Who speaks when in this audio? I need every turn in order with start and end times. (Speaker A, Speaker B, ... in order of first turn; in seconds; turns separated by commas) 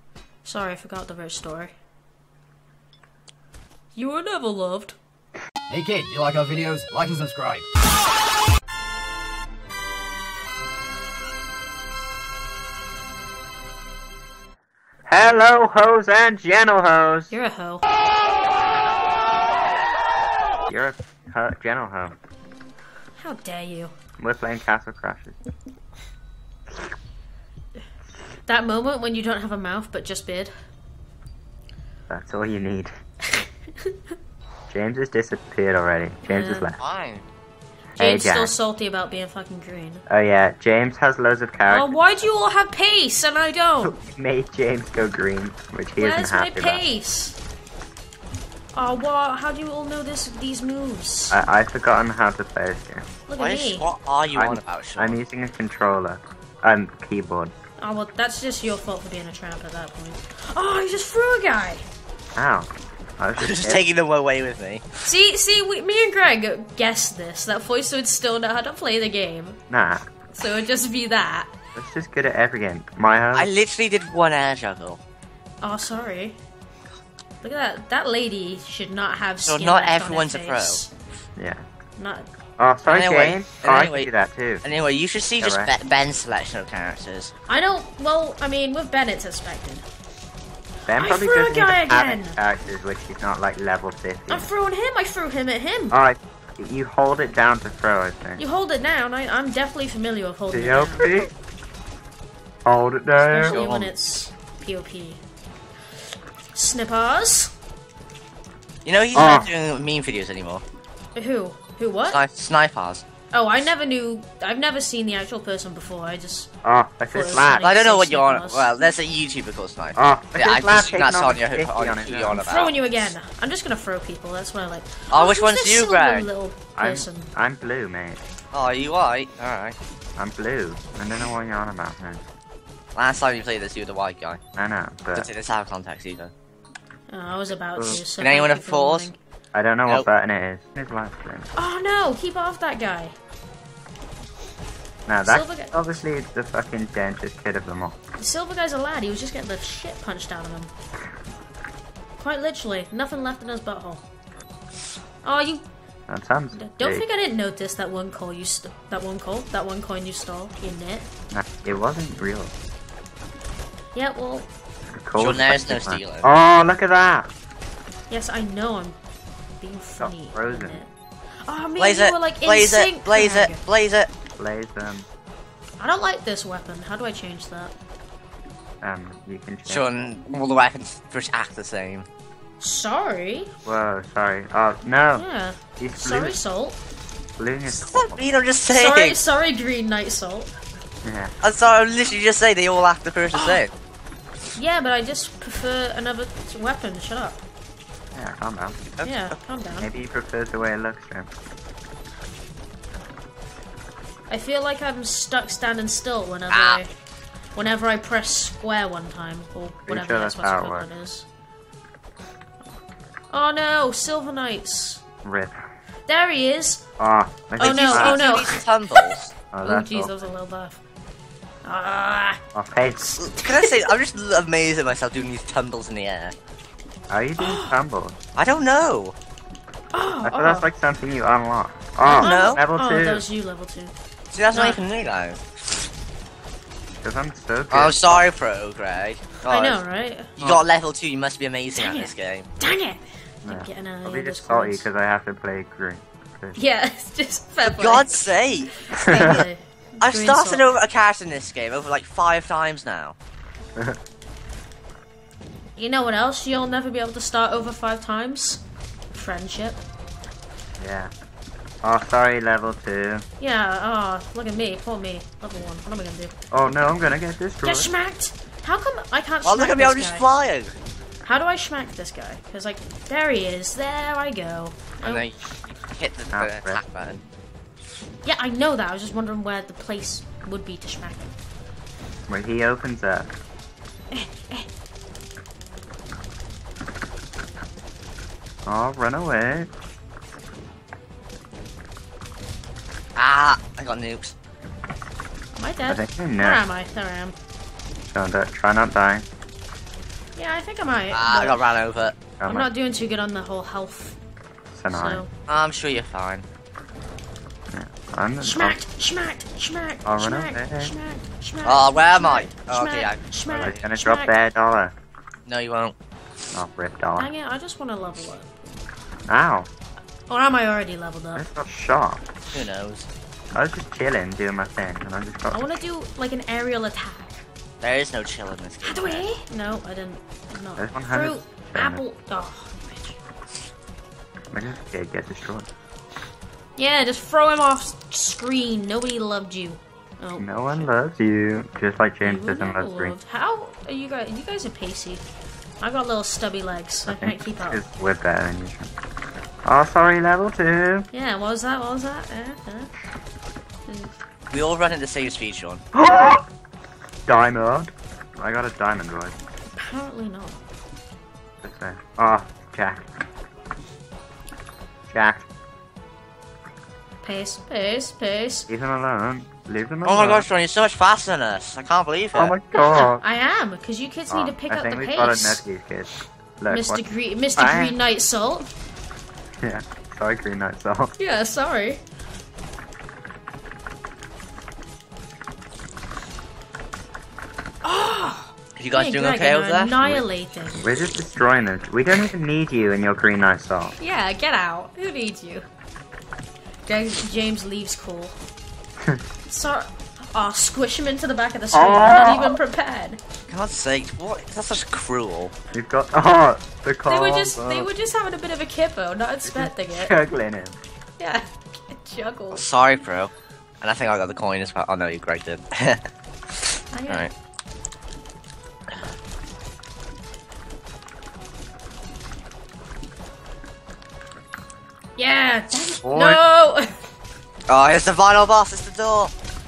Speaker A: 0.4-1.7, Speaker A: 4.0-5.0, Speaker B: 5.7-7.7, Speaker C: 15.1-17.3, Speaker A: 17.3-17.8, Speaker C: 20.7-22.1, Speaker A: 23.2-23.9, Speaker C: 24.2-25.4, Speaker A: 28.5-30.5, Speaker C: 32.1-32.9, Speaker C: 34.7-36.8, Speaker A: 36.2-36.7, Speaker D: 36.8-37.3, Speaker A: 38.0-40.0, Speaker C: 38.0-38.5, Speaker C: 40.1-41.9, Speaker A: 41.7-44.0, Speaker C: 43.8-46.8, Speaker A: 46.0-47.4, Speaker A: 48.7-51.4, Speaker C: 51.3-53.0, Speaker A: 53.3-53.9, Speaker D: 53.4-55.2, Speaker C: 54.3-57.5, Speaker A: 57.8-61.9, Speaker C: 62.4-63.8, Speaker D: 63.4-64.8, Speaker A: 65.0-69.6, Speaker C: 69.7-70.1, Speaker A: 70.3-71.5, Speaker C: 71.8-73.5, Speaker D: 73.3-75.0, Speaker A: 75.6-76.4, Speaker A: 77.4-80.9, Speaker D: 79.5-80.8, Speaker C: 81.4-81.6, Speaker A: 82.0-82.3, Speaker C: 82.6-84.6, Speaker D: 82.9-84.1, Speaker D: 84.6-87.3, Speaker C: 85.4-85.7, Speaker A: 87.5-89.8, Speaker C: 90.9-94.5, Speaker A: 91.0-92.4, Speaker A: 94.3-96.0, Speaker C: 95.9-98.4, Speaker A: 98.4-101.2, Speaker C: 100.5-101.3, Speaker C: 102.7-103.6, Speaker A: 103.3-105.2, Speaker D: 103.4-103.9, Speaker A: 106.5-107.5, Speaker D: 108.9-110.6, Speaker C: 109.1-109.5, Speaker A: 111.2-112.2, Speaker D: 112.1-113.0, Speaker A: 113.3-116.5, Speaker C: 116.6-117.7, Speaker A: 117.1-118.8, Speaker D: 117.6-122.7, Speaker C: 120.0-122.5, Speaker A: 122.4-127.3, Speaker D: 125.1-126.3, Speaker C: 126.8-128.2, Speaker D: 128.5-129.8, Speaker C: 130.2-132.2, Speaker D: 132.9-134.4, Speaker C: 134.6-135.3, Speaker D: 135.2-136.3, Speaker A: 137.1-139.2, Speaker C: 137.8-138.0, Speaker D: 138.2-139.1, Speaker C: 139.5-141.5, Speaker A: 141.6-143.1, Speaker C: 145.1-148.0, Speaker A: 145.2-145.7, Speaker A: 148.2-150.7, Speaker A: 152.2-154.1, Speaker A: 155.2-155.7, Speaker C: 156.1-157.1, Speaker A: 156.6-161.1, Speaker C: 161.3-162.5, Speaker A: 163.9-164.5, Speaker C: 165.0-167.3, Speaker D: 165.2-166.3, Speaker A: 168.1-169.0, Speaker A: 169.6-170.9, Speaker C: 170.0-170.8, Speaker A: 171.5-173.6, Speaker D: 171.8-174.1, Speaker C: 174.4-175.1, Speaker A: 175.8-177.7, Speaker C: 178.8-179.9, Speaker D: 179.7-182.1, Speaker A: 182.6-183.5, Speaker C: 183.7-185.3, Speaker A: 185.2-186.8, Speaker C: 185.8-186.4, Speaker C: 187.4-188.2, Speaker D: 187.7-189.2, Speaker A: 188.7-190.5, Speaker C: 191.0-191.3, Speaker D: 191.4-193.7, Speaker A: 193.3-193.6, Speaker A: 194.6-197.4, Speaker C: 198.2-198.8, Speaker D: 199.0-199.3, Speaker A: 199.0-199.9, Speaker C: 199.8-201.3, Speaker A: 204.3-206.9, Speaker D: 206.5-206.8, Speaker A: 207.6-211.3, Speaker C: 209.9-210.9, Speaker A: 213.3-215.0, Speaker C: 215.2-215.6, Speaker A: 216.1-216.8, Speaker C: 217.0-218.4, Speaker A: 217.6-220.8, Speaker D: 217.6-219.3, Speaker C: 219.5-220.3, Speaker A: 221.7-222.4, Speaker C: 222.6-223.2, Speaker D: 223.2-226.3, Speaker C: 227.1-228.2, Speaker A: 227.4-227.7, Speaker D: 228.4-229.2, Speaker A: 229.9-230.7, Speaker C: 230.2-233.2, Speaker A: 232.1-233.9, Speaker D: 232.2-232.6, Speaker D: 234.3-235.4, Speaker A: 234.5-234.8, Speaker C: 237.0-238.2, Speaker D: 237.7-239.8, Speaker A: 239.5-240.3, Speaker C: 240.4-240.6, Speaker D: 240.4-242.5, Speaker A: 241.8-244.9, Speaker C: 243.4-246.6, Speaker A: 246.6-248.3, Speaker D: 247.6-249.4, Speaker A: 248.8-250.8, Speaker C: 248.9-249.4, Speaker D: 250.0-253.2, Speaker A: 255.8-259.8, Speaker C: 260.8-261.1, Speaker C: 261.8-263.2, Speaker A: 263.4-266.4, Speaker C: 266.5-267.9, Speaker A: 267.6-270.3, Speaker D: 269.4-270.8, Speaker A: 271.2-275.3, Speaker D: 275.0-277.2, Speaker C: 276.3-276.8, Speaker A: 278.2-281.3, Speaker C: 282.3-283.3, Speaker A: 284.1-284.7, Speaker C: 288.7-289.7, Speaker D: 293.2-294.3, Speaker A: 295.5-297.4, Speaker C: 295.9-296.6, Speaker C: 298.1-299.3, Speaker A: 300.4-301.6, Speaker D: 301.1-302.2, Speaker C: 302.4-302.7, Speaker A: 302.4-304.2, Speaker C: 304.7-305.2, Speaker A: 304.9-305.3, Speaker D: 305.5-306.5, Speaker C: 307.7-308.8, Speaker A: 308.4-314.4, Speaker C: 310.1-310.9, Speaker D: 311.6-313.8, Speaker C: 313.5-314.9, Speaker D: 315.5-315.9, Speaker C: 316.5-317.3, Speaker A: 317.2-318.5, Speaker C: 319.3-319.7, Speaker A: 320.3-321.5, Speaker C: 321.4-322.2, Speaker D: 322.5-323.1, Speaker C: 323.5-325.7, Speaker A: 325.5-327.4, Speaker D: 327.8-329.3, Speaker A: 328.8-333.2, Speaker C: 330.8-332.0, Speaker C: 334.5-335.7, Speaker A: 336.8-340.9, Speaker C: 340.4-343.2, Speaker A: 342.2-345.2, Speaker A: 345.8-347.8, Speaker C: 347.1-348.9, Speaker C: 349.6-351.1, Speaker A: 351.1-352.9, Speaker A: 353.9-354.2, Speaker D: 354.5-355.8, Speaker C: 355.9-356.4, Speaker C: 357.3-359.4, Speaker A: 359.7-360.6, Speaker C: 361.6-363.1, Speaker C: 365.1-365.5, Speaker A: 367.2-368.7, Speaker C: 368.7-370.5, Speaker D: 370.0-372.6, Speaker C: 372.4-373.2, Speaker A: 372.7-375.6, Speaker C: 374.3-377.1, Speaker A: 376.7-378.7, Speaker C: 377.6-377.9, Speaker C: 379.6-381.1, Speaker A: 381.2-382.0, Speaker A: 387.8-390.9, Speaker D: 388.8-390.2, Speaker C: 390.8-393.9, Speaker A: 394.0-395.7, Speaker A: 396.9-398.4, Speaker A: 399.5-403.2, Speaker C: 401.7-402.6, Speaker D: 403.5-405.5, Speaker C: 405.7-407.9, Speaker A: 407.1-410.2, Speaker C: 409.4-410.8, Speaker A: 411.2-412.6, Speaker D: 412.5-416.0, Speaker A: 416.9-417.3, Speaker D: 417.1-417.3, Speaker A: 425.2-426.9, Speaker C: 426.0-426.4, Speaker D: 427.7-429.3